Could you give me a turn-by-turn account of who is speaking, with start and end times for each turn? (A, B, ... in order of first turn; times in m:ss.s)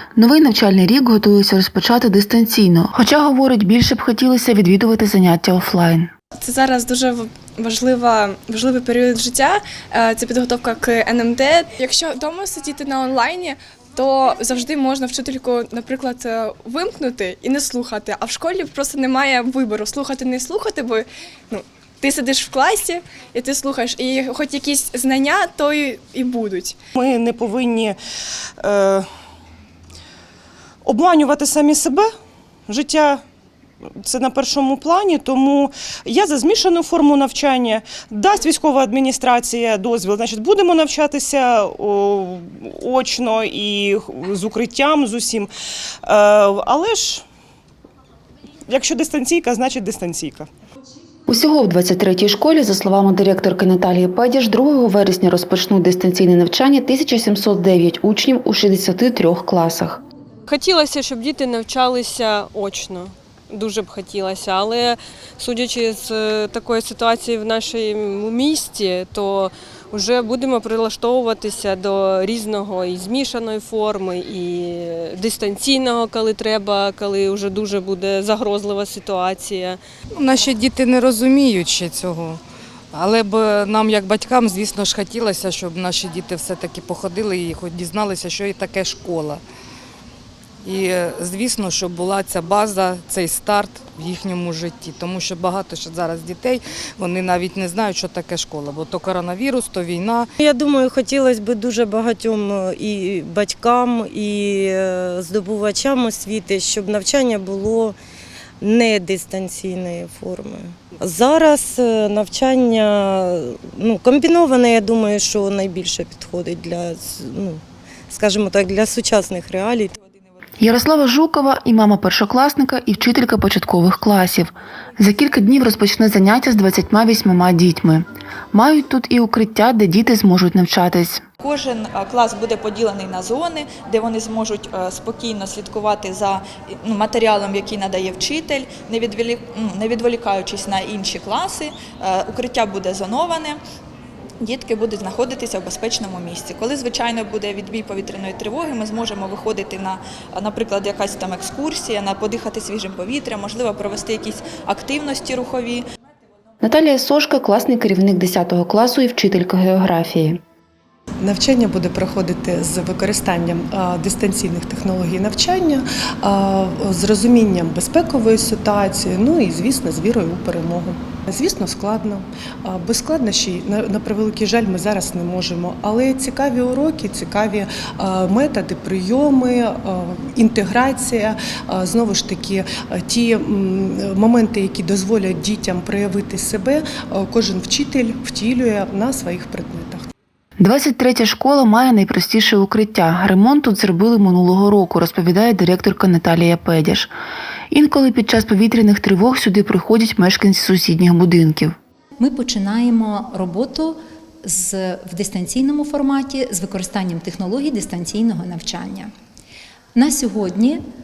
0:00.2-0:06.1 A
0:06.4-0:26.8 B
0:27.0-0:28.0 C
0:28.6-0:29.1 C
0:30.8-0:32.1 C
0:32.7-0:33.2 C
0:34.0-0:45.5 C
0:46.0-0:47.2 C
0:48.7-0:50.5 C
0:51.3-1:00.0 A
1:00.4-1:19.8 D
1:20.1-1:22.4 E
1:22.9-1:29.4 E
1:30.6-1:40.3 E
1:40.4-1:48.0 F
1:48.6-1:59.9 F
2:00.6-2:11.2 A
2:11.4-2:23.6 G
2:24.4-2:35.8 G
2:36.6-2:40.4 A
2:41.2-3:10.1 H
3:10.6-3:17.1 A
3:17.7-3:21.8 A
3:22.2-3:29.1 I
3:29.9-3:30.8 I